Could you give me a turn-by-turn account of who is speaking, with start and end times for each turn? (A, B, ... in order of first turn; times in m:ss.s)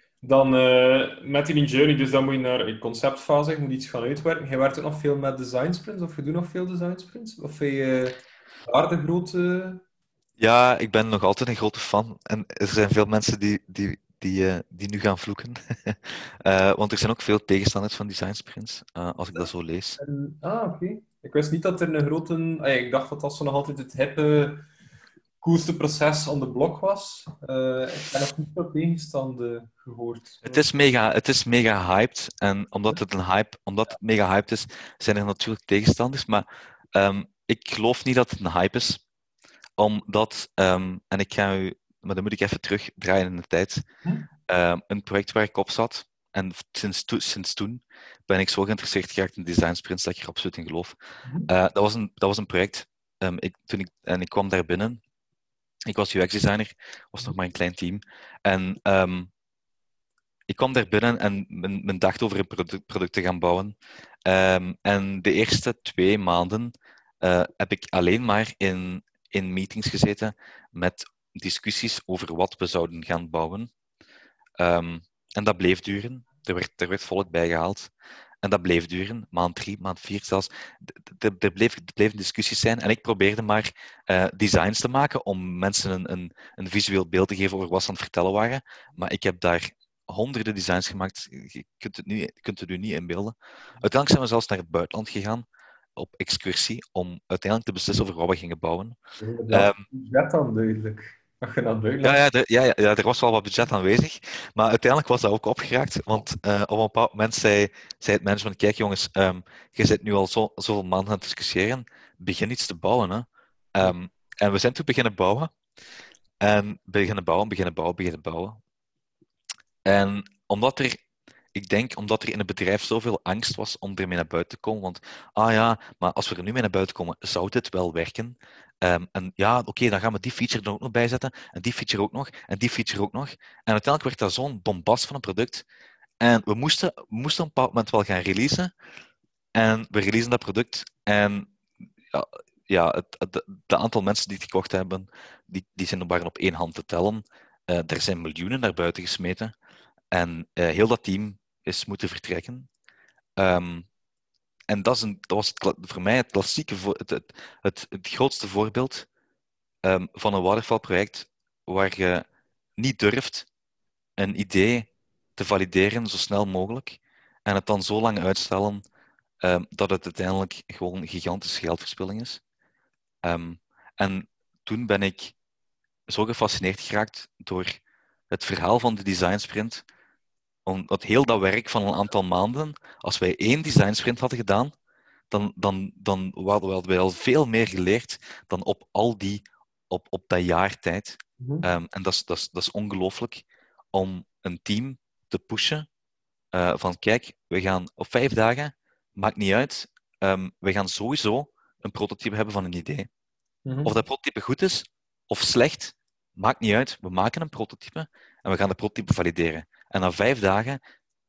0:00.2-0:09.8 A
0:10.4-0:20.0 B
0:19.4-0:24.7 A
0:25.4-0:30.6 A
0:30.4-0:39.0 B
0:39.8-0:43.8 B
0:44.5-0:51.0 B
0:51.2-0:51.5 A
0:51.5-0:55.0 B
0:55.9-0:59.3 B
1:00.5-1:03.8 B
1:04.3-1:13.7 B
1:14.6-1:17.9 B
1:18.4-1:35.4 B
1:36.0-1:39.0 B
1:39.2-1:42.2 A
1:39.5-1:39.8 B
1:42.0-1:55.5 B
1:56.4-1:58.6 B
1:59.8-2:01.0 B
2:01.6-2:15.6 B
2:16.2-2:18.7 B
2:19.6-2:21.5 B
2:22.1-2:29.5 B
2:30.1-2:32.7 B
2:33.4-2:33.9 B
2:34.7-2:39.1 B
2:39.8-2:42.3 B
2:42.8-2:43.5 B
2:44.2-2:48.8 B
2:49.4-2:52.4 B
2:53.2-2:55.4 B
2:56.1-2:57.8 B
2:58.3-2:59.8 B
3:00.7-3:04.7 B
3:05.3-3:15.9 B
3:11.4-3:11.7 A
3:16.5-3:23.1 B
3:23.7-3:23.9 A
3:23.8-3:30.8 B